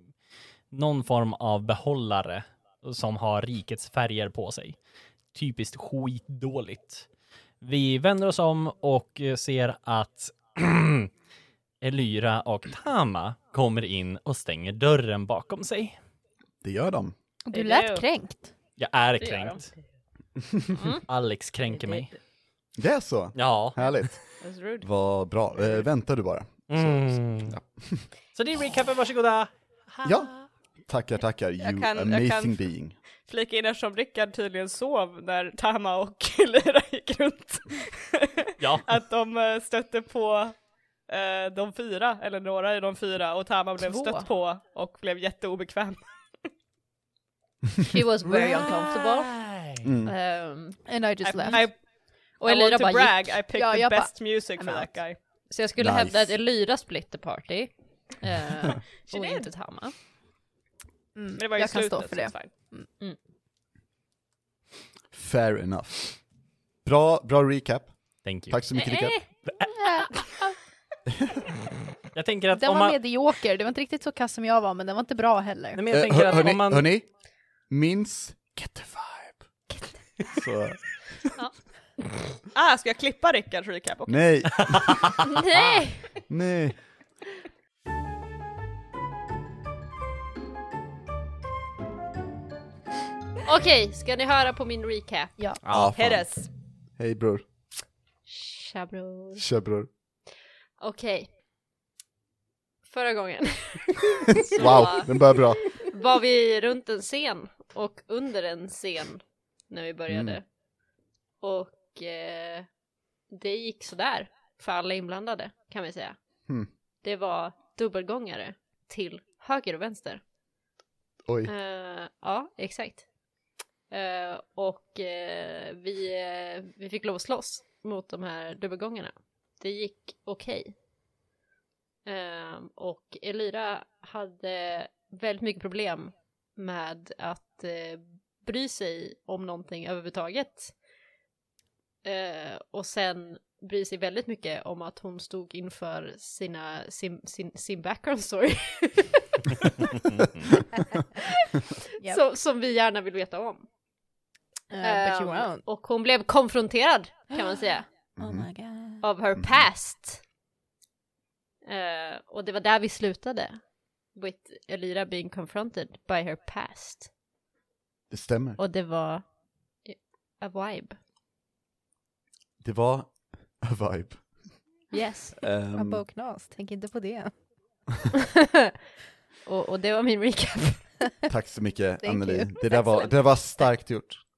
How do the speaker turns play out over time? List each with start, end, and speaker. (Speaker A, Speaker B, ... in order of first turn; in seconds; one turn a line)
Speaker A: 0.7-4.8
Speaker A: 5.3-7.0
Speaker A: 7.6-11.1
Speaker A: 11.8-15.9
Speaker B: 16.6-17.1
Speaker C: 17.4-18.5
Speaker D: 17.5-18.0
Speaker A: 18.8-19.7
Speaker E: 19.2-19.7
Speaker A: 21.1-22.1
Speaker B: 22.8-24.2
Speaker A: 23.3-24.1
Speaker D: 24.4-24.9
Speaker B: 24.8-28.1
Speaker A: 26.7-27.6
Speaker A: 28.3-30.4
Speaker B: 30.0-30.3
Speaker B: 30.9-33.0
Speaker D: 31.6-32.6
Speaker D: 33.3-40.6
Speaker A: 38.6-38.9
Speaker D: 41.1-46.0
Speaker E: 47.8-49.4
Speaker A: 49.0-49.8
Speaker B: 49.8-50.1
Speaker E: 50.0-50.8
Speaker C: 50.9-51.7
Speaker D: 51.2-51.8
Speaker D: 52.4-55.2
Speaker E: 52.4-53.4
Speaker C: 53.5-54.9
Speaker E: 55.5-59.9
Speaker B: 55.8-56.3
Speaker D: 59.1-59.5
Speaker C: 61.1-62.9
Speaker D: 61.4-62.5
Speaker B: 65.1-66.2
Speaker B: 66.8-69.2
Speaker A: 68.2-68.6
Speaker E: 68.7-69.4
Speaker C: 69.8-70.2
Speaker A: 72.1-73.0
Speaker C: 72.5-75.8
Speaker A: 75.7-76.9
Speaker B: 75.9-77.1
Speaker B: 77.7-79.4
Speaker B: 80.3-80.8
Speaker D: 82.5-84.2
Speaker B: 84.1-85.1
Speaker A: 84.7-85.1
Speaker E: 85.2-86.2
Speaker B: 86.3-86.8
Speaker E: 93.4-95.3
Speaker D: 95.7-96.5
Speaker B: 95.7-96.3
Speaker B: 97.0-97.4
Speaker E: 98.3-99.5
Speaker B: 99.4-99.9
Speaker E: 100.8-101.3
Speaker E: 102.9-110.4
Speaker B: 104.3-105.8
Speaker B: 110.1-110.4
Speaker E: 111.4-112.7
Speaker E: 113.3-116.2
Speaker E: 117.0-120.2
Speaker B: 121.2-121.5
Speaker E: 121.4-123.0
Speaker E: 123.9-130.7
Speaker E: 132.1-140.7
Speaker E: 142.0-149.5
Speaker E: 151.0-151.4
Speaker E: 152.0-153.7
Speaker C: 154.7-155.6
Speaker E: 154.8-157.9
Speaker B: 158.2-158.5
Speaker C: 158.2-159.0
Speaker E: 159.0-160.2
Speaker B: 159.4-159.7
Speaker E: 161.6-163.6
Speaker E: 164.1-167.1
Speaker B: 168.1-168.6
Speaker E: 168.6-169.2
Speaker E: 169.8-171.0
Speaker B: 172.6-174.5
Speaker E: 174.9-175.4
Speaker B: 175.4-176.0
Speaker C: 175.7-177.3
Speaker E: 178.3-178.7
Speaker E: 179.4-180.9
Speaker B: 181.3-184.2
Speaker C: 182.0-182.6